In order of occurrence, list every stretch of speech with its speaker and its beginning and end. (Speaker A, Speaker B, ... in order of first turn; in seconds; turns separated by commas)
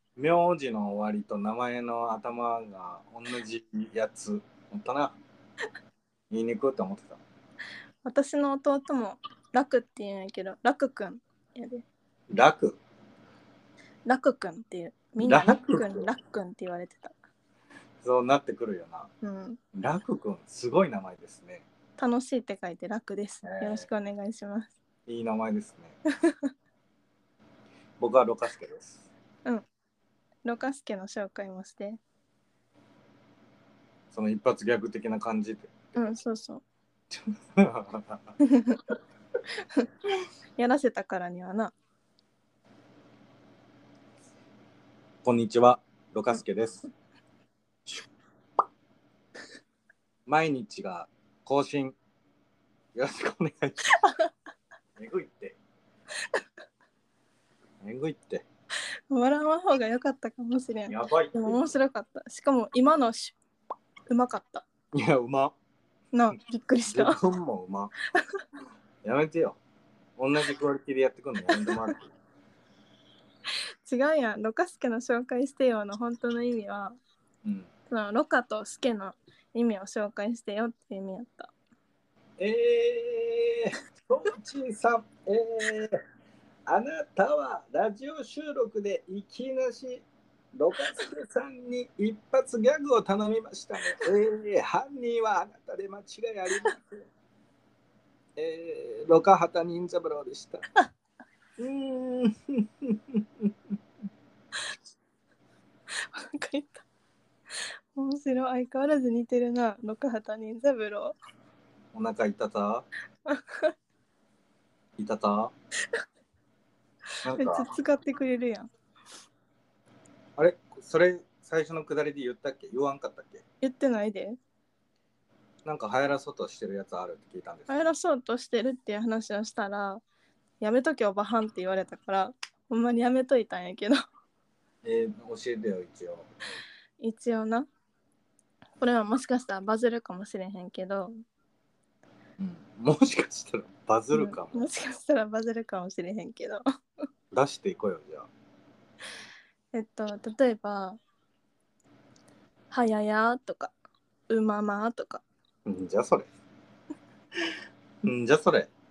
Speaker A: 0.1-5.2, Speaker A: 6.3-7.2, Speaker B: 8.0-11.8, Speaker A: 12.3-12.8, Speaker B: 14.1-17.1, Speaker A: 15.2-16.1, Speaker A: 18.0-19.1, Speaker B: 19.2-19.6, Speaker A: 19.8-21.6, Speaker B: 22.0-24.7, Speaker A: 23.4-23.9, Speaker A: 25.1-25.9, Speaker B: 26.2-26.5, Speaker A: 28.0-29.1, Speaker B: 30.4-32.0, Speaker A: 34.1-35.9, Speaker B: 35.9-36.6, Speaker A: 37.1-38.4, Speaker B: 38.4-38.8, Speaker B: 39.6-39.9, Speaker B: 40.6-41.7, Speaker A: 45.2-46.9, Speaker A: 50.2-51.9, Speaker A: 52.9-53.9, Speaker B: 54.0-54.3, Speaker A: 55.0-55.6, Speaker A: 57.8-58.5, Speaker B: 59.1-63.4, Speaker A: 60.9-61.7, Speaker B: 64.1-64.6, Speaker A: 64.9-65.5, Speaker B: 66.1-67.2, Speaker A: 66.8-67.9, Speaker B: 68.1-68.4, Speaker A: 69.0-69.6, Speaker A: 70.2-72.1, Speaker B: 71.5-71.9, Speaker B: 73.8-77.0, Speaker B: 77.9-81.5, Speaker A: 82.4-86.0, Speaker A: 86.7-97.0, Speaker A: 98.3-100.6, Speaker A: 101.6-103.5, Speaker B: 105.9-106.8, Speaker B: 107.5-111.2, Speaker A: 111.9-112.8, Speaker B: 113.2-113.7, Speaker A: 115.0-115.5, Speaker A: 117.2-117.7, Speaker B: 117.3-118.7, Speaker A: 120.4-123.4, Speaker B: 123.6-124.4, Speaker A: 125.6-127.9, Speaker B: 127.7-130.0, Speaker B: 130.6-134.0, Speaker A: 134.8-136.3, Speaker B: 137.0-137.7, Speaker B: 138.8-141.1, Speaker A: 142.4-144.7, Speaker B: 144.1-146.6, Speaker A: 147.3-148.3, Speaker B: 149.7-151.0, Speaker B: 152.7-153.7, Speaker B: 154.3-155.2, Speaker A: 155.7-156.3, Speaker A: 158.0-158.7